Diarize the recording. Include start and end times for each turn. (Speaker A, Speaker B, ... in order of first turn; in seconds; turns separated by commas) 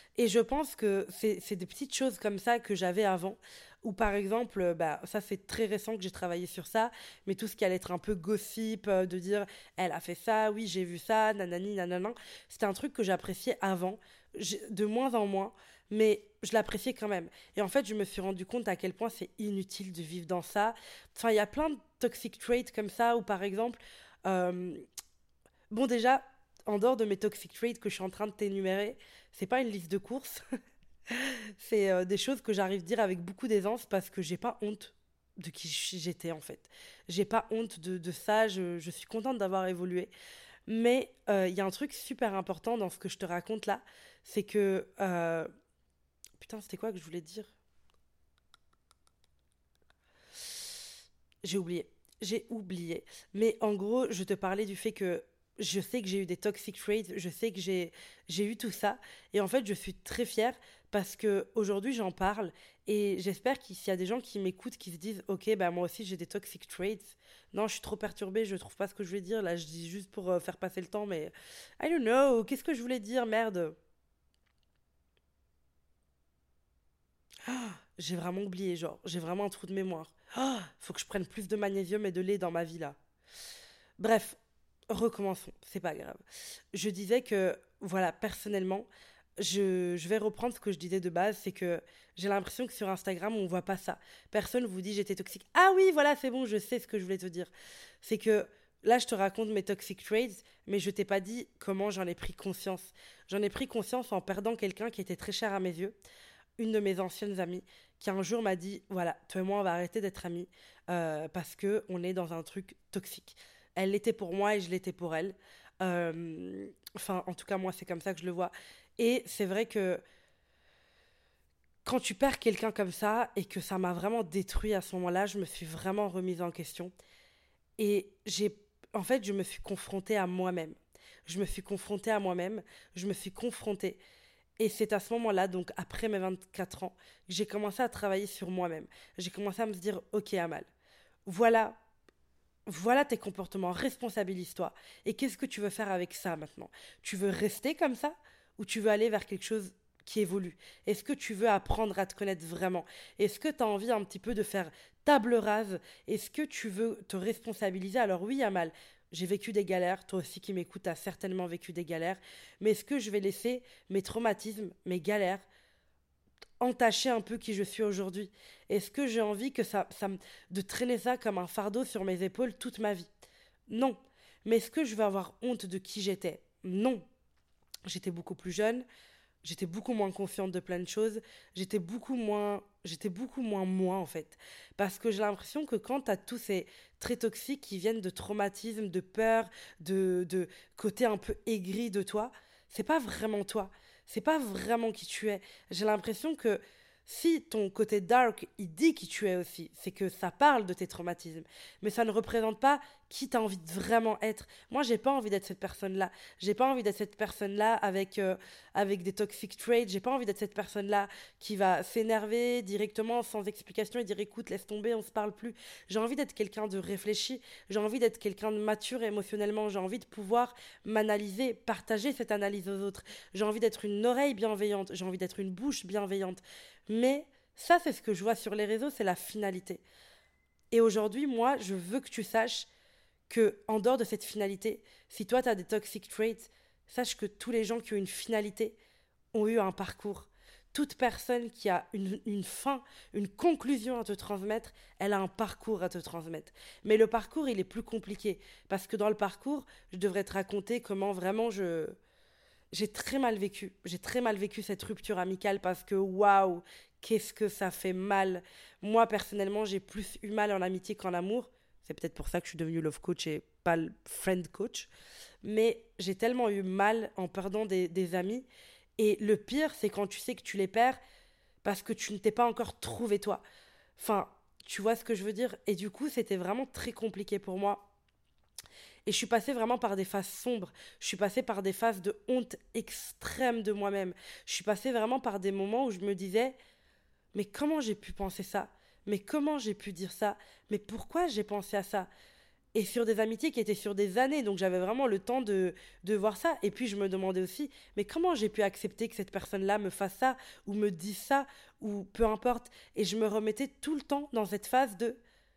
Speaker A: 0.2-24.8, Speaker A: 25.7-30.4, Speaker A: 31.1-40.1, Speaker A: 40.7-45.5, Speaker A: 46.4-47.5, Speaker A: 51.4-73.8, Speaker A: 77.4-83.0, Speaker A: 84.0-84.4, Speaker A: 84.9-86.2, Speaker A: 86.7-97.5, Speaker A: 98.0-106.0, Speaker A: 106.6-120.0, Speaker A: 121.8-126.9, Speaker A: 127.8-134.0, Speaker A: 134.6-140.7, Speaker A: 141.2-141.8, Speaker A: 142.7-165.4, Speaker A: 166.6-173.1, Speaker A: 173.7-177.1, Speaker A: 177.8-178.8, Speaker A: 179.4-229.8, Speaker A: 230.7-232.7, Speaker A: 233.3-238.8, Speaker A: 239.3-252.0, Speaker A: 252.7-264.9, Speaker A: 265.4-268.4, Speaker A: 269.0-271.0, Speaker A: 271.6-273.4, Speaker A: 274.0-277.9, Speaker A: 279.1-286.5, Speaker A: 287.3-292.1, Speaker A: 292.7-305.2